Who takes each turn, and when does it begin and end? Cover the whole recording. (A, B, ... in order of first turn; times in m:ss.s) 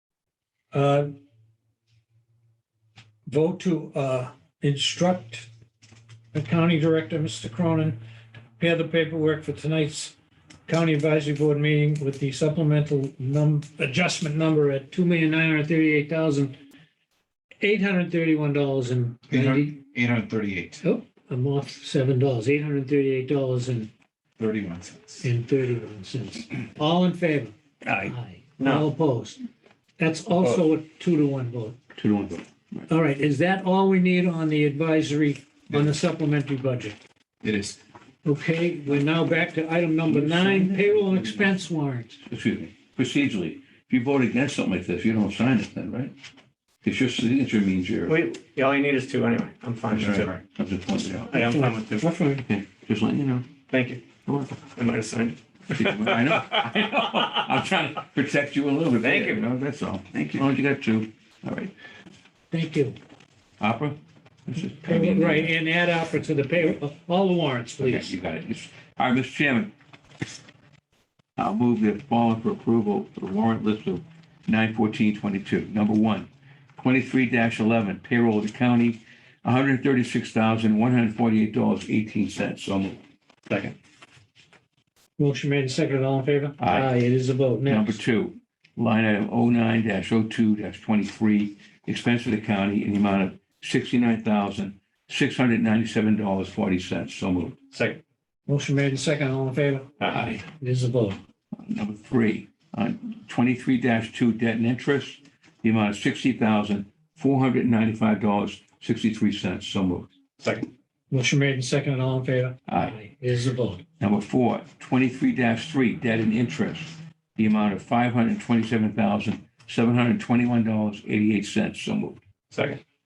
0:00.7-0:01.1 A
0:03.3-0:05.5 A
0:06.3-0:08.0 A
0:08.6-0:10.2 A
0:10.7-0:16.6 A
0:17.6-0:19.7 A
0:19.3-0:20.8 B
0:20.8-0:23.9 A
0:24.4-0:25.2 B
0:25.2-0:29.4 A
0:27.8-0:28.1 C
0:28.6-0:28.8 D
0:30.0-0:31.8 A
0:32.0-0:32.9 C
0:32.9-0:37.0 A
0:37.4-0:37.8 B
0:38.2-0:42.2 A
0:40.1-0:41.5 C
0:42.3-0:46.1 C
0:46.8-0:48.2 C
0:48.1-0:50.3 D
0:50.0-0:51.5 C
0:50.0-0:50.4 B
0:51.3-0:52.3 D
0:51.6-0:52.4 A
0:52.4-0:53.6 C
0:53.7-0:54.0 D
0:54.2-0:54.6 C
0:54.7-0:56.8 D
0:55.7-1:01.7 C
0:59.0-0:59.4 D
1:02.5-1:03.0 A
1:03.6-1:05.5 C
1:04.6-1:08.1 A
1:07.8-1:09.7 C
1:11.4-1:23.0 C
1:23.5-1:23.8 D
1:25.2-1:28.0 A
1:26.6-1:27.0 C
1:27.6-1:37.6 C
1:37.7-1:38.0 D
1:38.5-1:41.2 A
1:40.0-1:40.3 D
1:41.6-1:50.1 C
1:50.4-1:50.7 D
1:51.1-1:53.8 A
1:52.7-1:53.0 C
1:54.0-2:02.2 C
2:02.5-2:02.8 D